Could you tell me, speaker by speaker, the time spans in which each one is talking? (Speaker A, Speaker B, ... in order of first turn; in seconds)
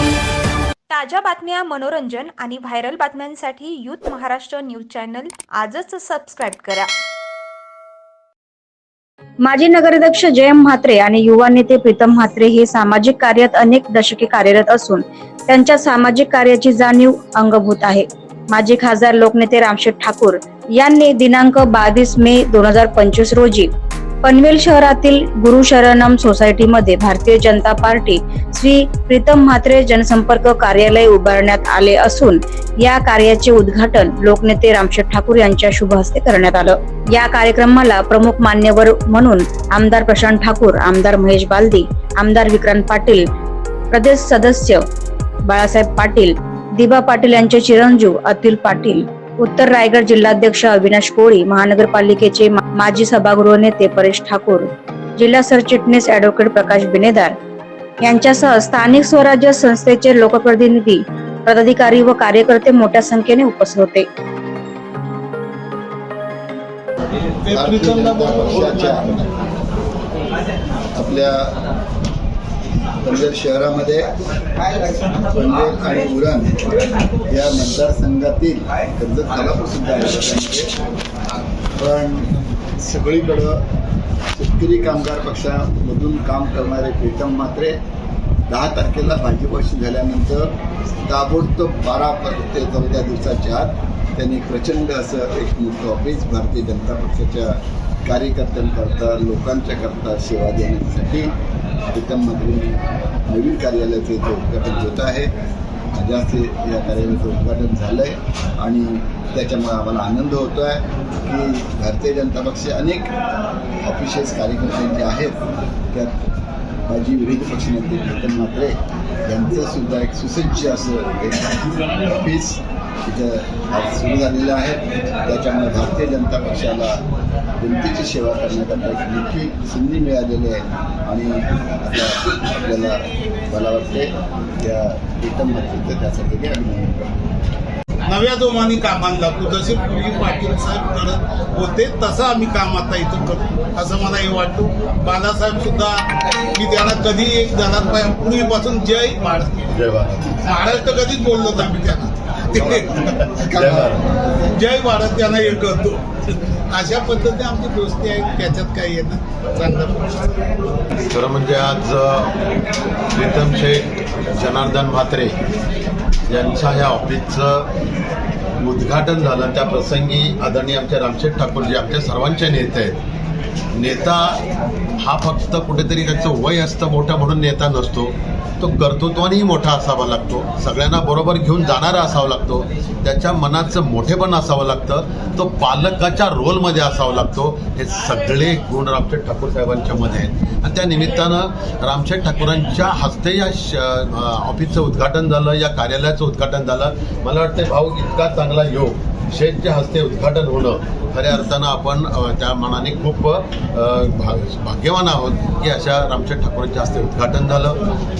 Speaker A: 0.9-6.9
Speaker B: 9.4-23.7, 24.2-43.2, 43.9-44.8, 45.5-57.4, 58.0-64.0
Speaker C: 67.5-69.1, 138.1-149.8, 150.4-153.3, 154.5-160.1
Speaker D: 67.5-69.3, 71.0-71.5, 73.0-74.1, 75.0-76.8, 77.3-80.7, 81.8-83.6, 84.3-87.8, 88.5-90.5, 91.0-101.3, 101.9-105.3, 105.9-113.1, 113.8-115.4, 116.9-127.0, 127.6-137.2, 152.5-154.3
Speaker E: 149.7-150.4, 153.5-154.0, 161.1-162.4, 163.1-165.3, 166.3-167.7, 168.6-172.9, 173.8-174.4, 175.0-207.8